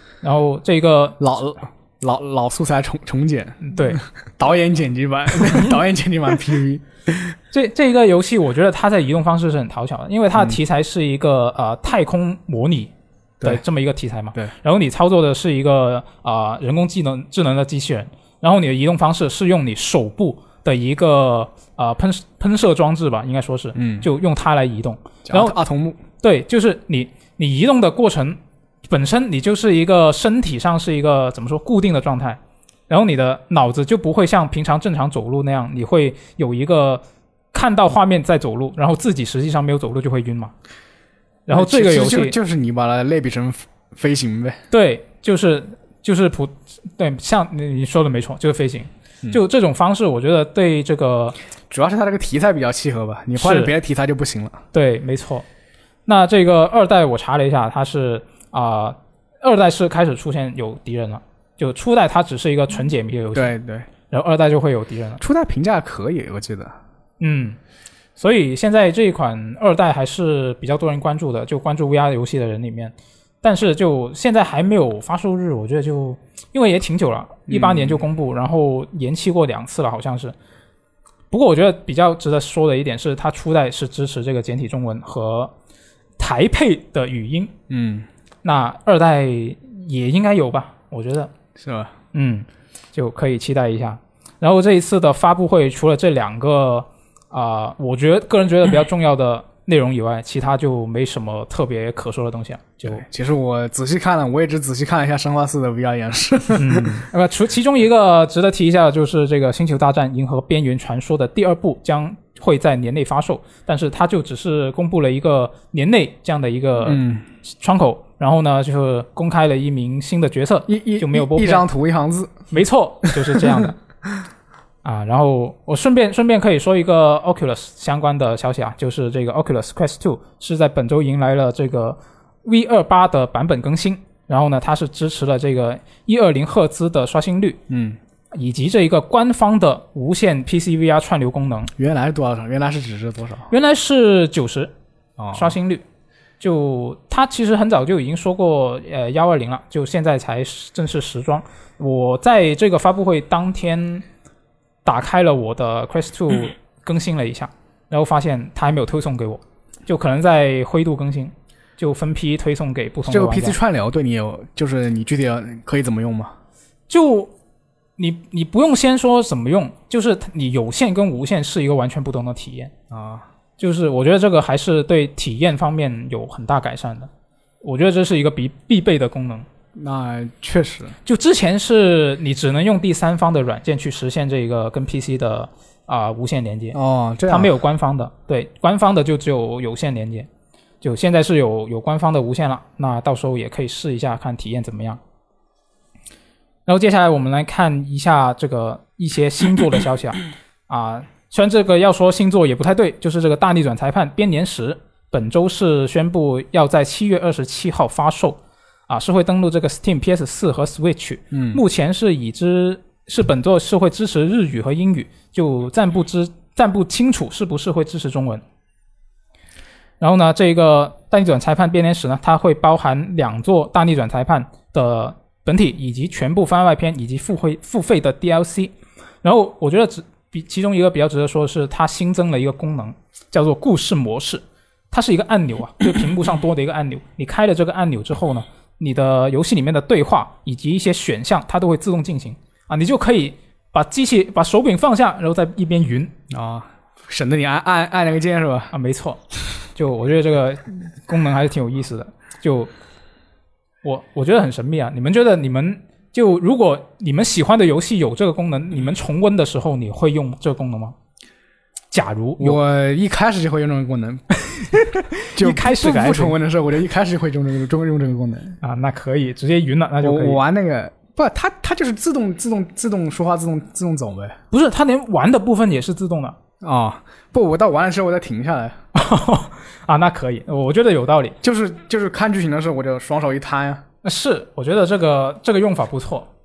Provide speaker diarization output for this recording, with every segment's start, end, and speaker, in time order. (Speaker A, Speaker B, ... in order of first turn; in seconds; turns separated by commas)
Speaker A: 0.2-1.2, Speaker B: 1.2-7.3, Speaker A: 3.6-4.0, Speaker A: 7.5-12.9, Speaker A: 13.4-25.6, Speaker B: 23.8-24.1, Speaker B: 25.3-26.0, Speaker A: 26.2-40.5, Speaker A: 41.5-42.4, Speaker B: 41.5-44.6, Speaker A: 44.7-51.4, Speaker B: 51.7-54.6, Speaker A: 53.4-53.7, Speaker A: 54.7-55.5, Speaker A: 56.1-63.5, Speaker B: 63.3-63.9, Speaker A: 64.1-65.2, Speaker B: 65.2-66.7, Speaker A: 67.2-67.6, Speaker A: 68.2-80.3, Speaker B: 77.5-78.0, Speaker A: 81.3-85.5, Speaker A: 86.2-87.5, Speaker B: 87.7-88.1, Speaker A: 88.4-91.3, Speaker B: 91.6-91.9, Speaker A: 92.1-103.0, Speaker B: 102.8-107.1, Speaker A: 106.6-117.0, Speaker B: 116.8-117.2, Speaker A: 117.5-121.7, Speaker B: 120.7-122.5, Speaker A: 122.5-123.8, Speaker B: 123.0-123.6, Speaker A: 124.8-137.6, Speaker B: 137.7-138.0, Speaker A: 138.3-141.7, Speaker B: 141.8-143.5, Speaker A: 143.5-144.7, Speaker B: 145.2-145.5, Speaker A: 145.3-145.8, Speaker A: 146.4-154.1, Speaker A: 154.8-163.6, Speaker B: 163.1-166.3, Speaker A: 166.9-167.3, Speaker A: 168.0-172.7, Speaker B: 172.9-173.3, Speaker A: 173.6-177.1, Speaker A: 177.6-179.5, Speaker B: 179.8-181.0, Speaker A: 181.1-190.3, Speaker B: 186.7-187.5, Speaker A: 190.8-195.0, Speaker A: 196.7-218.4, Speaker B: 211.3-211.6, Speaker A: 220.0-246.1, Speaker B: 246.3-248.7, Speaker A: 248.7-249.2, Speaker A: 249.8-252.7, Speaker A: 253.8-260.9, Speaker A: 261.9-262.6, Speaker B: 262.4-264.8, Speaker A: 264.7-266.4, Speaker B: 265.3-268.6, Speaker A: 268.6-270.4, Speaker B: 270.0-274.4, Speaker A: 274.5-276.4, Speaker B: 276.6-278.8, Speaker A: 278.9-281.4, Speaker B: 281.4-283.8, Speaker A: 284.0-286.3